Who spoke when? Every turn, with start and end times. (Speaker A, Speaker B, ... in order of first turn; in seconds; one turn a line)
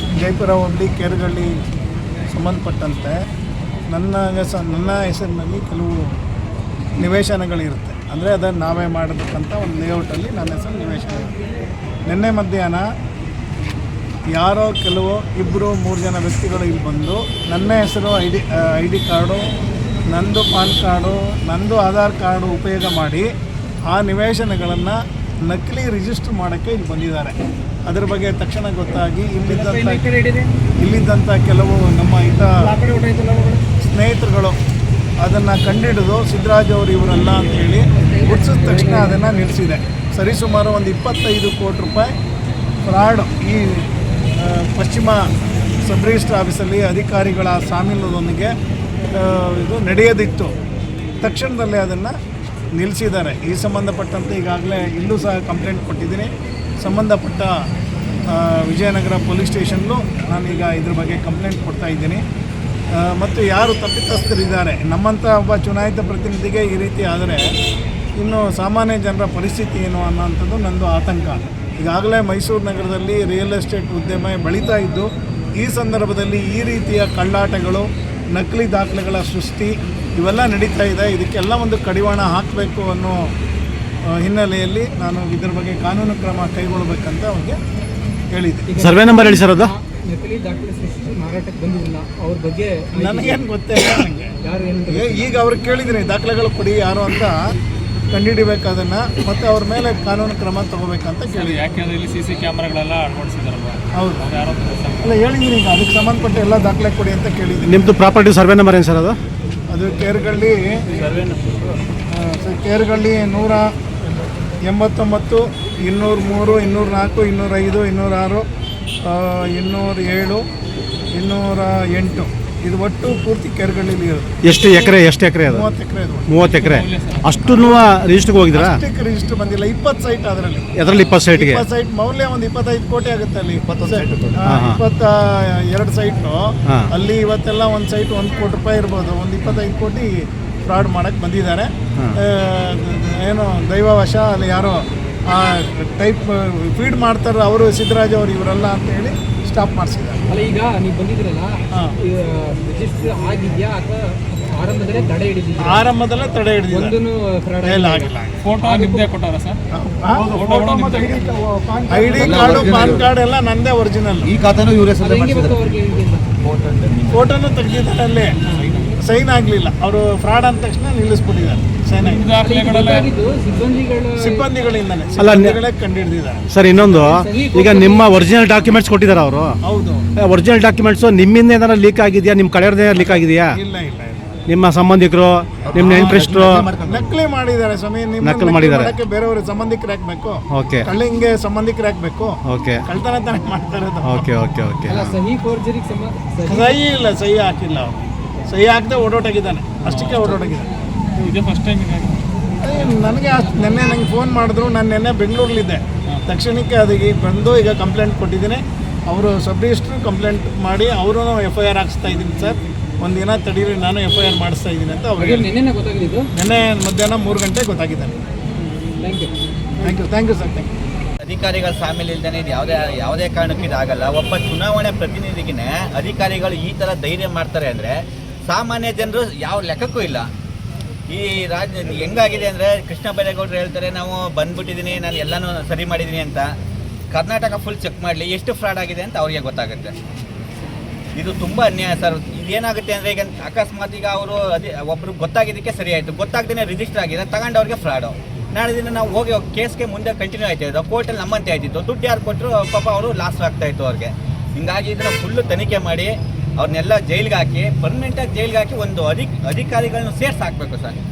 Speaker A: 0.2-1.5
Speaker A: 2.3-3.2
Speaker A: 3.9-6.1
Speaker A: 7.0-11.3
Speaker A: 12.1-12.8
Speaker A: 14.3-19.5
Speaker A: 20.1-23.2
Speaker A: 23.9-30.1
Speaker B: 29.5-30.5
Speaker A: 30.8-32.7
Speaker B: 32.6-33.6
Speaker A: 33.8-34.6
Speaker A: 35.2-42.1
Speaker B: 38.2-39.1
Speaker A: 42.8-45.3
Speaker A: 45.8-48.5
Speaker A: 49.1-50.5
Speaker A: 51.2-52.1
Speaker A: 52.7-56.3
Speaker A: 56.8-57.5
Speaker A: 58.3-62.2
Speaker A: 62.9-67.4
Speaker A: 68.2-83.3
Speaker A: 84.1-87.6
Speaker A: 88.3-88.7
Speaker B: 88.7-93.5
Speaker C: 88.8-89.7
Speaker A: 92.9-94.3
Speaker B: 94.4-95.3
Speaker A: 94.9-97.4
Speaker A: 98.1-101.7
Speaker D: 101.3-105.2
Speaker A: 103.9-104.3
Speaker A: 105.0-107.9
Speaker C: 107.6-109.2
Speaker A: 109.7-110.8
Speaker D: 111.1-111.3
Speaker A: 112.1-113.7
Speaker A: 114.6-118.5
Speaker A: 119.0-120.4
Speaker A: 121.1-124.4
Speaker C: 124.4-125.7
Speaker A: 125.5-126.3
Speaker C: 126.3-128.8
Speaker D: 126.5-127.3
Speaker A: 127.4-127.9
Speaker A: 128.5-150.2
Speaker C: 130.7-131.6
Speaker E: 133.6-134.5
Speaker C: 134.4-134.8
Speaker B: 150.3-155.9
Speaker A: 155.6-157.0
Speaker B: 156.7-159.0
Speaker A: 157.6-158.4
Speaker D: 158.4-159.6
Speaker A: 159.7-160.4
Speaker D: 160.2-161.3
Speaker B: 160.5-162.3
Speaker A: 161.9-164.3
Speaker E: 162.1-163.1
Speaker E: 164.2-165.7
Speaker B: 165.0-166.3
Speaker E: 166.4-167.3
Speaker A: 167.1-168.4
Speaker A: 169.0-172.3
Speaker D: 172.0-173.1
Speaker B: 172.4-174.5
Speaker A: 174.2-176.4
Speaker C: 175.2-175.6
Speaker C: 176.5-179.6
Speaker B: 176.9-178.2
Speaker A: 179.6-180.1
Speaker C: 180.2-183.6
Speaker A: 183.5-184.4
Speaker C: 184.5-186.7
Speaker E: 185.6-187.2
Speaker A: 185.8-186.2
Speaker A: 186.8-194.2
Speaker C: 188.2-188.9
Speaker C: 190.5-190.9
Speaker C: 192.4-192.8
Speaker C: 194.0-195.2
Speaker B: 194.9-196.8
Speaker A: 196.4-200.7
Speaker D: 199.8-200.3
Speaker D: 201.2-202.2
Speaker A: 202.6-215.5
Speaker B: 215.2-216.3
Speaker A: 216.3-218.2
Speaker B: 219.0-219.3
Speaker A: 219.8-220.7
Speaker F: 221.2-230.3
Speaker F: 231.1-236.5
Speaker F: 237.1-239.9
Speaker F: 241.2-260.9